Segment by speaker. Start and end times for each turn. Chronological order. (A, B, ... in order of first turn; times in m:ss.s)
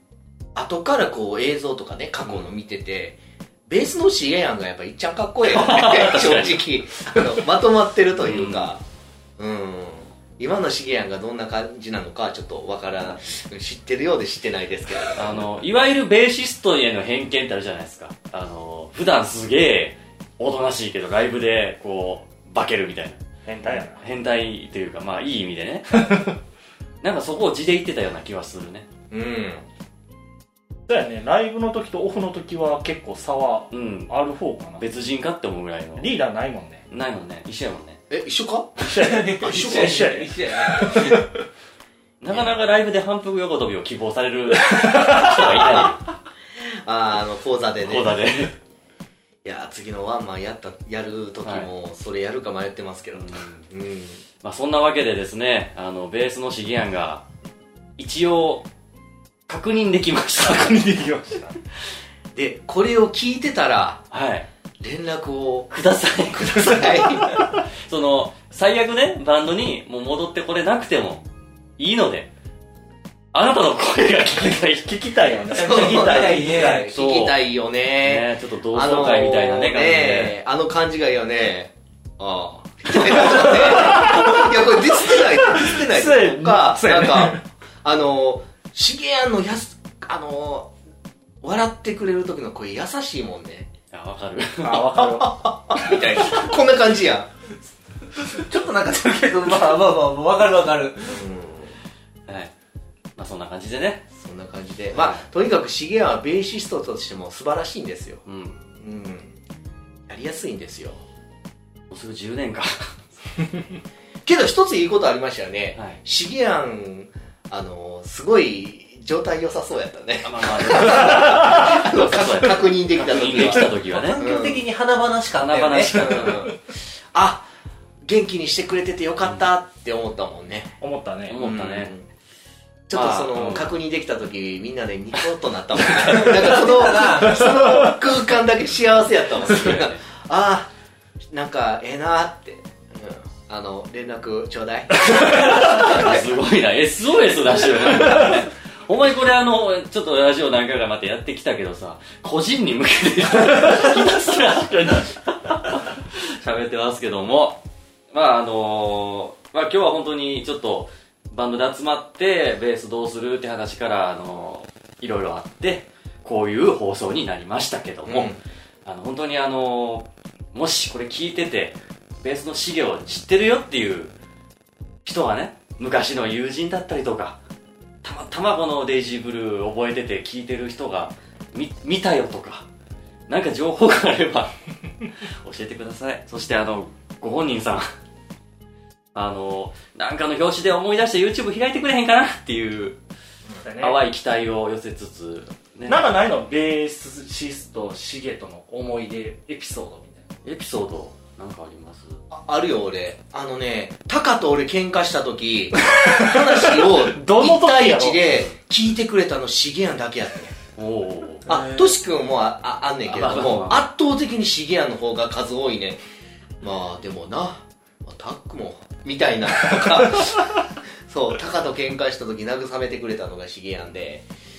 0:00.6-0:08.8 A
0:02.2-0:02.5 B
0:05.5-0:06.6 B
0:08.2-0:08.7 B
0:09.4-0:15.4 A
0:15.2-0:26.4 B
0:23.5-0:24.0 C
0:27.0-0:28.9 B
0:29.1-0:29.6 A
0:30.9-0:34.8 C
0:33.7-0:34.2 B
0:34.8-0:36.1 B
0:36.0-0:36.8 C
0:36.9-0:38.0 B
0:38.1-0:38.9 A
0:38.9-0:41.2 C
0:39.0-0:41.2 D
0:39.4-0:40.0 A
0:42.2-0:46.1 B
0:42.3-0:42.6 A
0:45.3-0:45.9 A
0:46.9-0:48.2 A
0:47.8-0:48.5 B
0:49.4-0:54.2 A
0:51.4-0:51.7 B
0:53.1-0:53.6 B
0:54.4-0:57.2 B
0:58.0-0:58.7 B
0:59.5-1:01.0 B
1:00.4-1:01.6 C
1:02.4-1:04.0 A
1:04.1-1:04.5 B
1:04.8-1:05.7 A
1:05.7-1:11.3 B
1:06.4-1:07.4 A
1:11.8-1:12.3 B
1:13.3-1:15.0 B
1:14.8-1:16.7 C
1:15.5-1:16.9 D
1:15.5-1:30.7 A
1:16.1-1:17.4 B
1:18.0-1:20.4 B
1:24.0-1:24.4 C
1:25.2-1:27.4 C
1:31.4-1:33.7 A
1:33.9-1:34.9 B
1:34.6-1:35.5 C
1:34.8-1:37.3 A
1:38.2-1:41.2 D
1:41.1-1:41.7 A
1:42.3-1:42.5 B
1:43.2-1:44.0 B
1:44.2-1:48.2 A
1:44.9-1:45.2 B
1:48.3-1:48.6 B
1:48.8-1:49.4 A
1:50.1-1:51.0 A
1:51.9-1:53.6 B
1:54.3-2:04.7 A
1:55.8-1:56.0 B
2:00.2-2:04.2 B
2:03.9-2:06.3 D
2:05.4-2:06.4 B
2:05.9-2:06.6 A
2:07.1-2:07.5 A
2:08.0-2:10.8 A
2:10.8-2:11.4 C
2:11.3-2:11.9 B
2:11.4-2:12.1 A
2:12.9-2:20.7 A
2:12.9-2:13.8 B
2:16.1-2:17.8 D
2:21.3-2:26.3 A
2:25.2-2:25.7 D
2:25.6-2:54.1 B
2:48.0-2:48.4 A
2:55.0-2:57.4 B
2:58.0-3:02.7 B
3:03.3-3:04.5 B
3:05.4-3:07.8 B
3:09.2-3:13.0 B
3:13.6-3:14.0 C
3:13.8-3:16.1 B
3:15.9-3:20.2 C
3:20.4-3:22.2 B
3:22.3-3:30.6 A
3:25.8-3:28.2 C
3:30.8-3:31.5 B
3:31.5-3:36.0 A
3:31.5-3:31.9 D
3:33.1-3:33.9 B
3:36.6-3:44.2 A